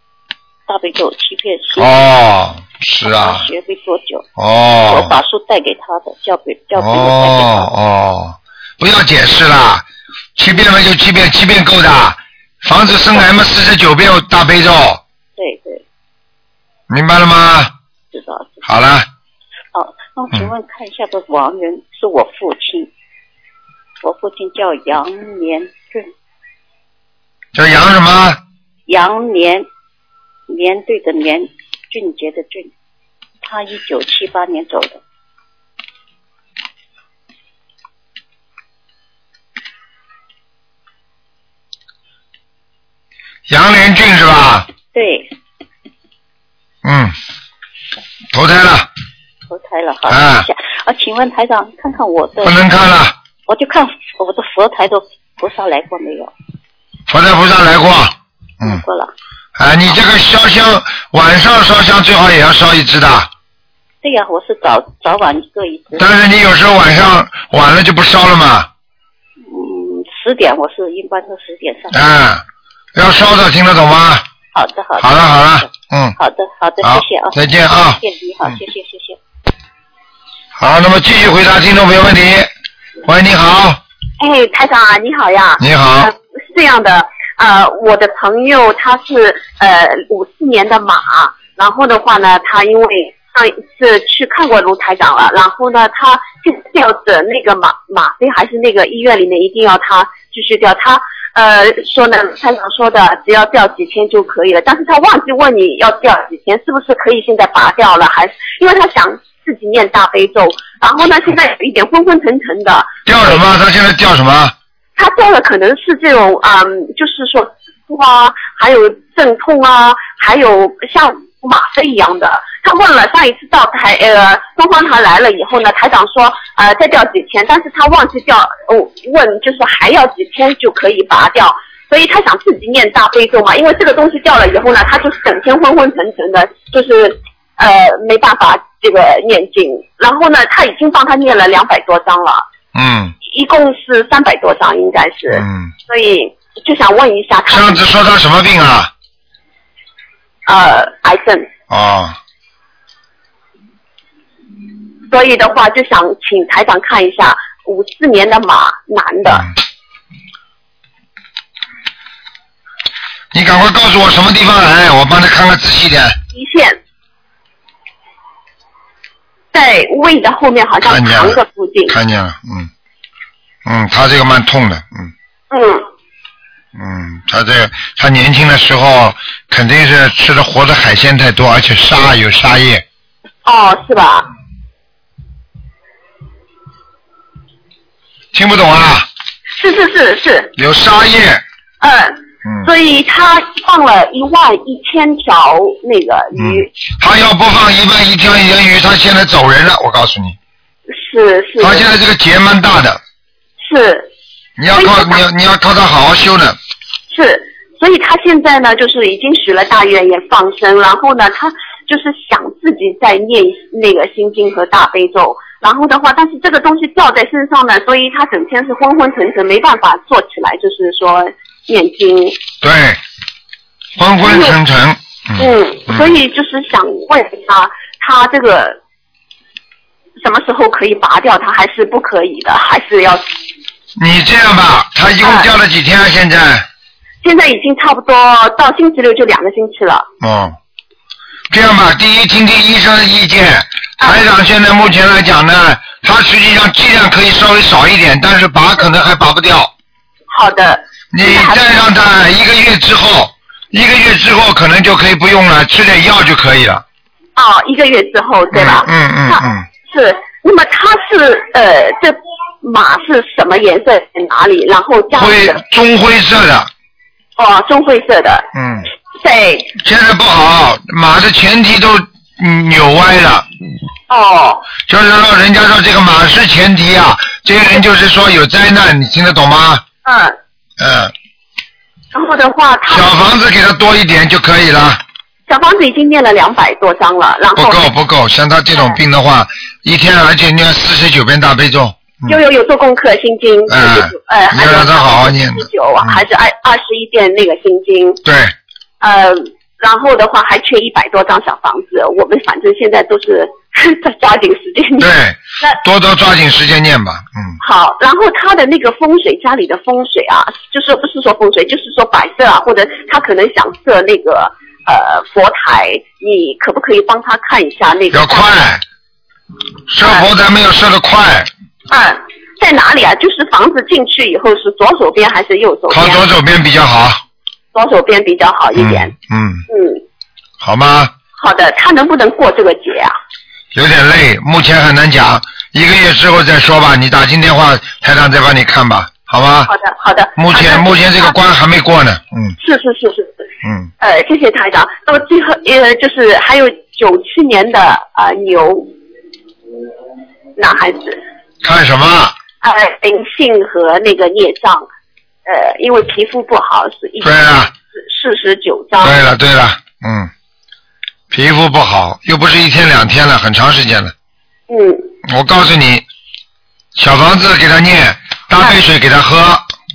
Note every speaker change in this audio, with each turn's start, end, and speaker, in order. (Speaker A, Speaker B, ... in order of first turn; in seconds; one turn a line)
Speaker A: 0.7-1.9
Speaker B: 1.8-3.5
Speaker A: 3.0-4.2
Speaker B: 4.4-5.2
Speaker A: 4.9-7.7
Speaker B: 6.7-15.0
Speaker A: 15.4-15.8
Speaker B: 16.9-17.7
Speaker A: 18.1-18.6
Speaker B: 18.6-19.1
Speaker A: 19.7-22.9
Speaker A: 24.0-26.1
Speaker B: 27.5-28.4
Speaker A: 28.9-29.7
Speaker A: 30.5-32.7
Speaker A: 33.4-35.0
Speaker B: 43.5-44.7
Speaker A: 44.9-45.3
Speaker B: 46.8-47.1
Speaker B: 48.3-48.9
Speaker A: 49.5-52.6
Speaker B: 50.1-50.5
Speaker B: 52.4-53.1
Speaker A: 53.5-56.3
Speaker B: 57.1-58.8
Speaker A: 58.6-59.1
Speaker B: 59.6-63.3
Speaker A: 64.0-66.1
Speaker B: 66.0-68.7
Speaker A: 69.5-72.0
Speaker B: 71.9-72.4
Speaker B: 72.9-74.2
Speaker A: 74.5-79.2
Speaker B: 75.0-76.2
Speaker B: 76.8-78.6
Speaker B: 80.6-82.5
Speaker B: 83.0-83.8
Speaker C: 84.2-113.3
Speaker B: 85.6-86.1
Speaker B: 113.0-114.5
Speaker C: 115.0-142.4
Speaker B: 142.7-143.1
Speaker C: 143.3-147.8
Speaker B: 145.3-145.7
Speaker B: 147.5-148.9
Speaker C: 150.5-151.5
Speaker B: 151.7-152.2
Speaker C: 155.1-159.5
Speaker B: 163.3-166.2
Speaker C: 166.3-166.8
Speaker C: 169.5-171.9
Speaker B: 170.8-172.7
Speaker B: 173.6-175.1
Speaker C: 175.5-175.8
Speaker B: 176.7-182.8
Speaker C: 183.4-184.3
Speaker B: 188.3-189.1
Speaker C: 189.6-190.5
Speaker B: 190.6-191.4
Speaker C: 191.8-196.7
Speaker B: 192.4-192.7
Speaker B: 196.4-200.4
Speaker C: 200.9-201.8
Speaker B: 201.6-203.0
Speaker C: 203.6-204.1
Speaker B: 204.6-206.6
Speaker C: 204.7-205.2
Speaker C: 207.1-222.4
Speaker B: 222.6-223.0
Speaker B: 224.0-226.1
Speaker C: 224.2-224.6
Speaker C: 225.4-228.8
Speaker C: 230.2-233.2
Speaker B: 234.0-236.7
Speaker C: 235.2-235.5
Speaker C: 237.2-240.1
Speaker B: 240.2-240.6
Speaker B: 241.5-249.7
Speaker C: 250.3-251.7
Speaker B: 251.1-256.8
Speaker C: 257.4-265.6
Speaker B: 258.5-259.6
Speaker B: 265.1-266.7
Speaker C: 267.4-268.4
Speaker B: 268.5-268.9
Speaker C: 269.2-269.7
Speaker B: 269.8-273.4
Speaker C: 274.1-274.7
Speaker B: 274.8-279.8
Speaker C: 280.0-280.4
Speaker B: 280.8-281.1
Speaker C: 282.1-283.1
Speaker B: 282.9-285.0
Speaker C: 285.5-287.8
Speaker B: 287.6-292.4
Speaker C: 292.3-298.2
Speaker B: 293.7-296.2
Speaker B: 298.2-298.5
Speaker C: 299.0-305.8
Speaker B: 305.0-307.6
Speaker C: 307.6-318.5
Speaker B: 318.1-318.8
Speaker B: 319.9-321.5
Speaker C: 320.0-320.3
Speaker C: 321.9-326.2
Speaker B: 325.9-327.2
Speaker C: 327.7-329.1
Speaker B: 328.8-329.6
Speaker C: 329.7-330.0
Speaker B: 330.6-331.1
Speaker C: 331.4-333.1
Speaker B: 333.7-339.7
Speaker C: 339.7-341.3
Speaker B: 340.4-342.5
Speaker C: 342.6-343.4
Speaker B: 343.6-343.9
Speaker C: 344.0-348.9
Speaker C: 350.6-351.2
Speaker B: 351.6-352.4
Speaker C: 352.6-354.9
Speaker C: 355.4-357.4
Speaker B: 357.2-357.7
Speaker C: 357.9-359.2
Speaker B: 359.0-360.3
Speaker B: 361.3-364.1
Speaker C: 364.7-365.1
Speaker B: 365.2-366.0
Speaker B: 366.9-369.7